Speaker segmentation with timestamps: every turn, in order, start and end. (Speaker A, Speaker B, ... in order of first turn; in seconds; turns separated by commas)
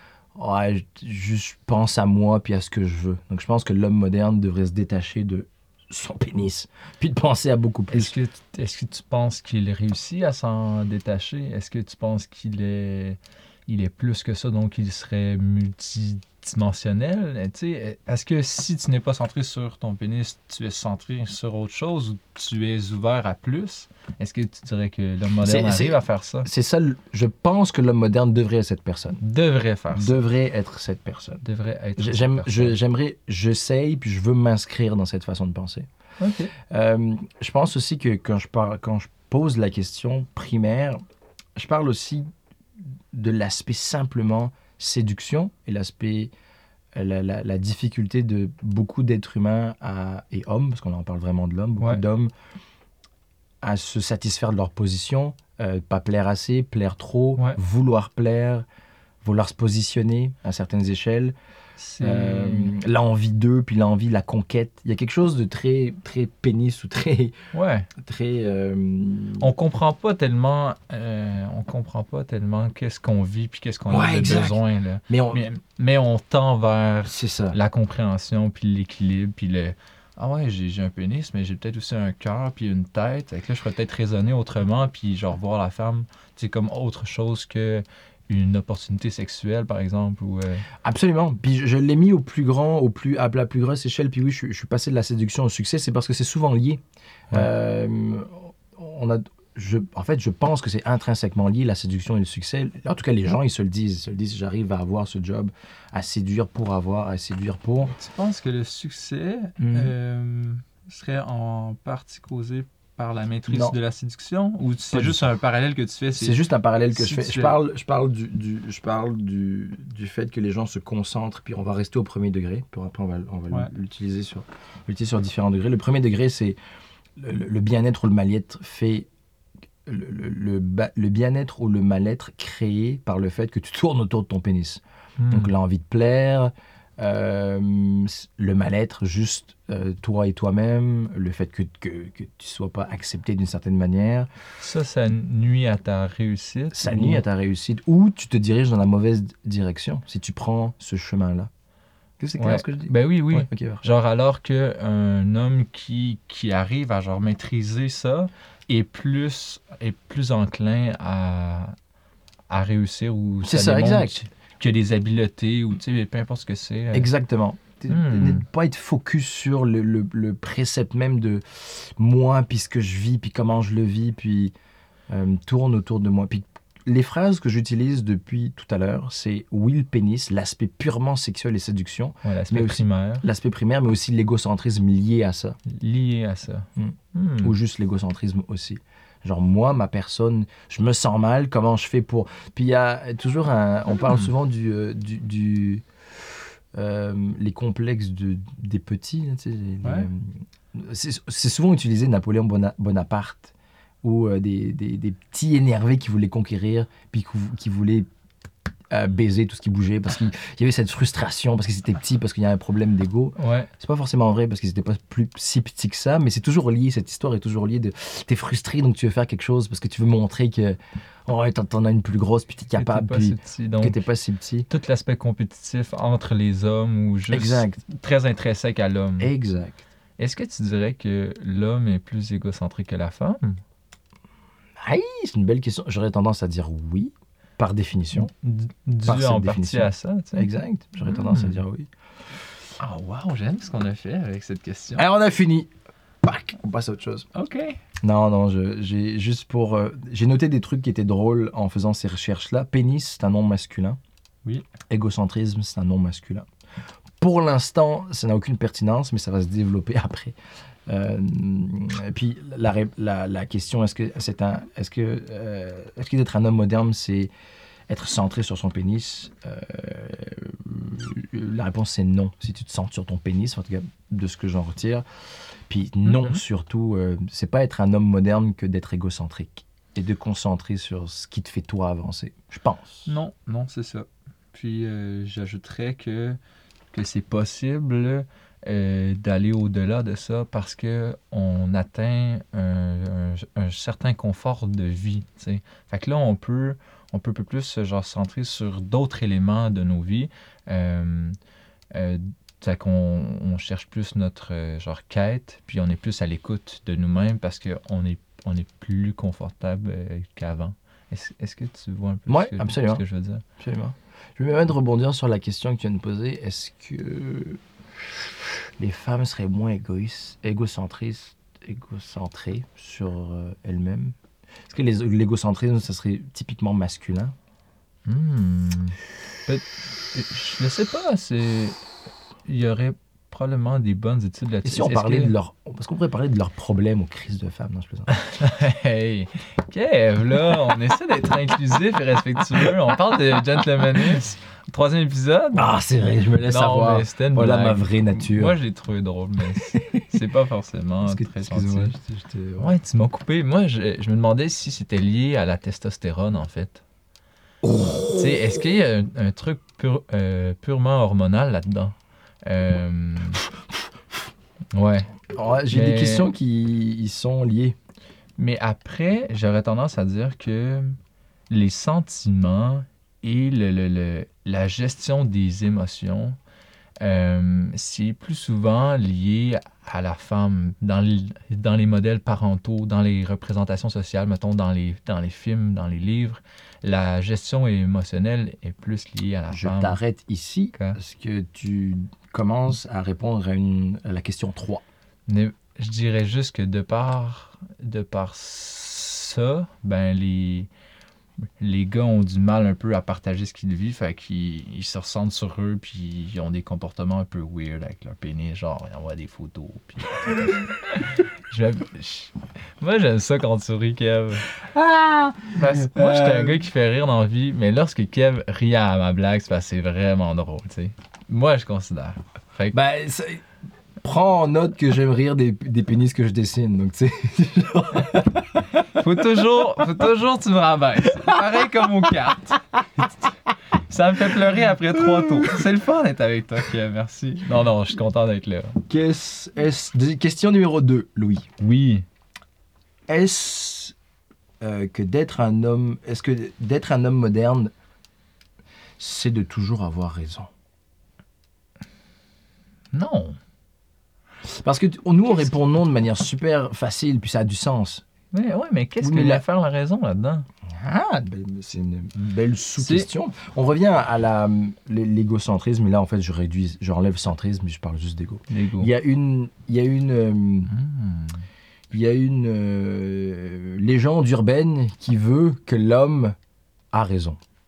Speaker A: 0.4-8.2, Speaker B: 7.9-26.5, Speaker A: 25.4-29.2, Speaker B: 29.2-30.2, Speaker A: 29.9-31.4, Speaker B: 31.4-32.8, Speaker A: 32.0-35.9, Speaker B: 36.2-36.5, Speaker A: 36.7-41.0, Speaker A: 41.6-42.3, Speaker A: 43.1-46.3, Speaker A: 47.0-52.3, Speaker A: 53.6-58.7, Speaker A: 59.2-61.3, Speaker B: 61.8-62.7, Speaker A: 62.0-67.3, Speaker B: 67.5-67.9, Speaker A: 68.0-69.5, Speaker B: 69.4-90.7, Speaker A: 73.9-75.5, Speaker A: 77.1-77.6, Speaker A: 90.8-107.9, Speaker B: 107.9-117.6, Speaker A: 109.6-109.9, Speaker A: 113.5-113.8, Speaker A: 114.9-115.2, Speaker A: 116.2-126.6, Speaker A: 127.2-129.1, Speaker A: 129.9-144.3, Speaker B: 135.2-135.5, Speaker B: 144.6-147.2, Speaker A: 146.7-151.5, Speaker A: 152.2-153.8, Speaker B: 152.4-161.7, Speaker B: 162.5-167.1, Speaker A: 163.4-164.2, Speaker A: 166.9-174.5, Speaker B: 167.9-168.4, Speaker A: 175.1-185.6, Speaker B: 182.2-183.2, Speaker B: 185.7-187.6, Speaker A: 186.8-195.8, Speaker A: 196.8-208.1, Speaker B: 199.8-200.1, Speaker A: 208.9-224.7, Speaker B: 213.4-213.7, Speaker B: 222.8-224.0, Speaker B: 224.7-229.3, Speaker A: 227.3-227.8, Speaker A: 229.2-229.8, Speaker B: 230.2-233.6, Speaker A: 234.8-238.3, Speaker B: 238.3-240.5, Speaker A: 239.1-241.9, Speaker B: 241.0-241.6, Speaker B: 242.8-245.0, Speaker A: 245.0-245.7, Speaker A: 246.2-247.3, Speaker B: 247.3-247.8, Speaker A: 248.0-254.0, Speaker A: 254.9-256.5, Speaker A: 257.2-260.4, Speaker A: 260.9-267.3, Speaker A: 267.9-275.0, Speaker A: 275.7-283.1, Speaker B: 276.1-276.4, Speaker B: 283.1-286.4, Speaker B: 286.9-301.4, Speaker B: 301.9-313.4, Speaker A: 312.3-313.0, Speaker A: 313.6-317.6, Speaker A: 318.8-324.1, Speaker A: 324.7-327.3, Speaker B: 328.1-331.8, Speaker B: 332.5-335.3, Speaker A: 334.6-338.2, Speaker B: 338.1-345.8, Speaker A: 345.6-348.6, Speaker B: 346.5-351.9, Speaker A: 349.7-350.0, Speaker A: 351.0-352.8, Speaker B: 352.6-356.8, Speaker A: 357.6-358.5, Speaker B: 358.1-363.4, Speaker B: 364.7-365.1, Speaker A: 365.3-367.8, Speaker B: 365.7-366.3, Speaker B: 368.4-371.0, Speaker B: 371.5-376.4, Speaker B: 377.0-390.0, Speaker A: 389.5-394.8, Speaker B: 395.3-400.7, Speaker B: 401.6-414.5, Speaker A: 414.6-416.7, Speaker B: 415.6-422.8, Speaker A: 422.7-423.4, Speaker A: 424.0-428.8, Speaker B: 428.8-433.1, Speaker B: 433.9-438.8, Speaker A: 435.2-435.6, Speaker A: 438.9-441.5, Speaker B: 441.6-442.1, Speaker A: 443.1-443.9, Speaker A: 444.6-447.7, Speaker A: 449.0-450.5, Speaker B: 452.9-453.4, Speaker A: 454.5-458.0, Speaker B: 458.3-460.5, Speaker A: 459.0-459.4, Speaker A: 460.7-470.7, Speaker B: 462.8-463.1, Speaker B: 468.5-468.9, Speaker B: 470.7-471.4, Speaker A: 471.9-476.4, Speaker A: 476.9-477.4